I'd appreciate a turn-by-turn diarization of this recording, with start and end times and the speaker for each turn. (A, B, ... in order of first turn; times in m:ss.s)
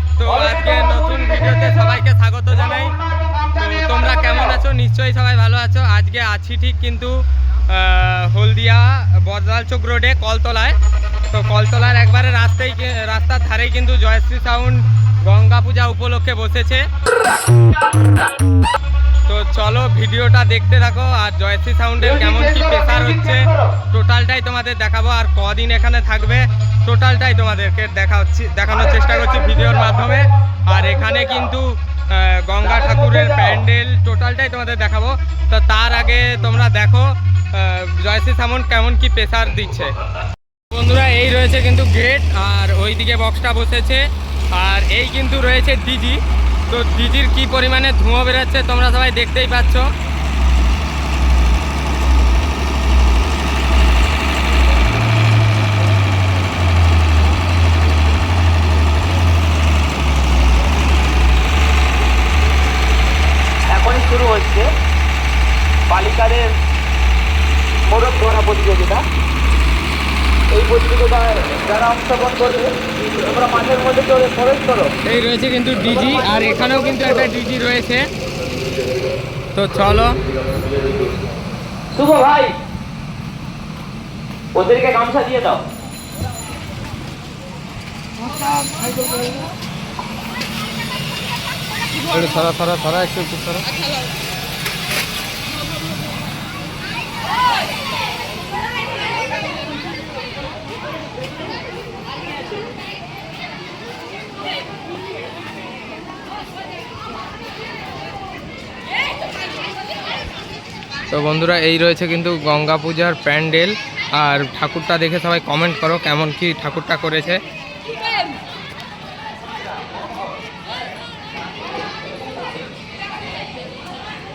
0:00.2-0:07.2 A
0:07.7-0:16.8 A
0:19.3-0:40.0 A
0:40.7-0:49.9 A
1:03.7-1:04.7 B
1:05.9-1:06.5 B
1:07.9-1:09.0 B
1:10.5-1:14.9 B
1:15.0-1:18.1 A
1:16.3-1:17.1 B
1:19.5-1:20.2 A
1:21.9-1:22.6 B
1:24.5-1:25.6 B
1:32.0-1:33.7 A
1:51.1-1:57.4 A